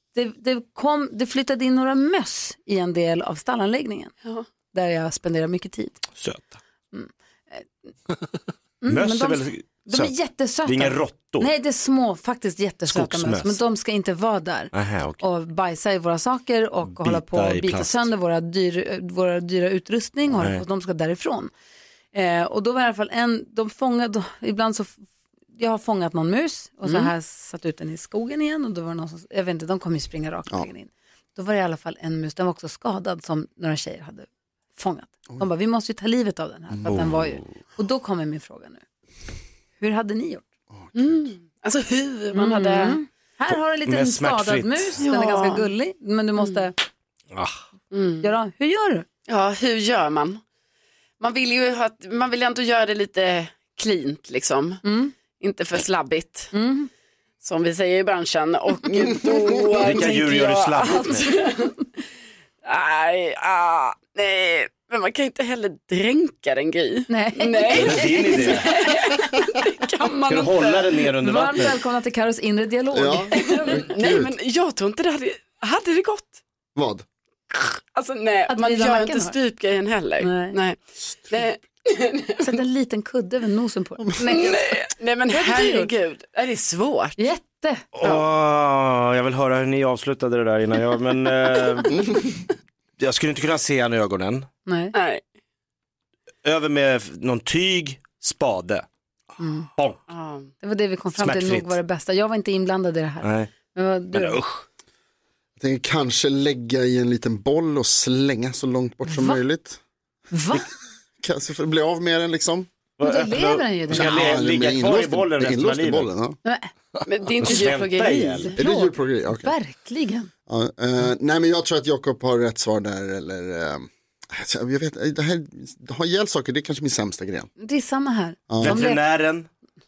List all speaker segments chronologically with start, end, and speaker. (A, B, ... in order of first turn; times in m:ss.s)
0:00.1-0:04.1 A
0:04.7-0:06.0 A
0:06.1-0:06.6 B
0:06.9-0:07.7 A
0:08.8-0:21.5 A
0:08.9-0:11.5 B
0:12.9-0:13.6 B
0:14.7-0:15.2 B
0:16.8-0:18.1 B
0:20.4-0:20.6 B
0:22.1-0:25.0 A
0:25.6-0:38.8 A
0:36.9-0:37.4 B
0:39.8-0:40.4 A
0:40.7-0:41.2 C
0:40.9-0:43.0 D
0:42.3-0:46.8 A
0:43.8-0:45.0 B
0:45.0-0:45.7 D
0:46.4-0:46.6 D
0:47.3-0:47.6 B
0:47.9-0:48.3 D
0:48.2-0:49.0 A
0:49.3-0:50.4 D
0:51.2-0:56.5 D
0:54.8-0:55.1 A
0:56.5-0:56.9 A
0:57.4-1:01.8 D
0:59.8-1:01.4 B
1:02.6-1:11.0 D
1:07.1-1:08.4 A
1:07.7-1:08.7 B
1:10.3-1:11.8 B
1:11.2-1:13.5 A
1:12.9-1:14.4 C
1:13.4-1:16.4 D
1:16.7-1:17.0 C
1:17.5-1:22.4 D
1:18.5-1:19.3 A
1:20.2-1:20.6 A
1:22.4-1:24.7 A
1:24.3-1:27.2 D
1:25.3-1:25.9 A
1:27.2-1:27.8 A
1:27.9-1:32.2 B
1:33.0-1:34.5 B
1:34.6-1:34.9 A
1:34.9-1:35.2 D
1:36.4-1:38.8 B
1:39.4-1:39.7 A
1:40.1-1:40.5 D
1:40.6-1:44.4 A
1:41.2-1:41.8 B
1:43.2-1:43.5 B
1:44.1-1:44.6 B
1:45.6-1:49.8 C
1:49.1-1:49.4 A
1:50.3-1:50.6 A
1:51.2-1:52.7 C
1:53.0-1:56.1 B
1:53.0-1:54.3 A
1:53.9-1:56.4 C
1:56.4-1:56.7 A
1:57.0-1:58.5 D
1:57.4-1:58.5 B
1:58.4-2:00.3 A
1:58.6-1:59.5 C
2:00.5-2:07.5 C
2:07.6-2:09.0 A
2:08.5-2:08.8 C
2:08.6-2:09.5 B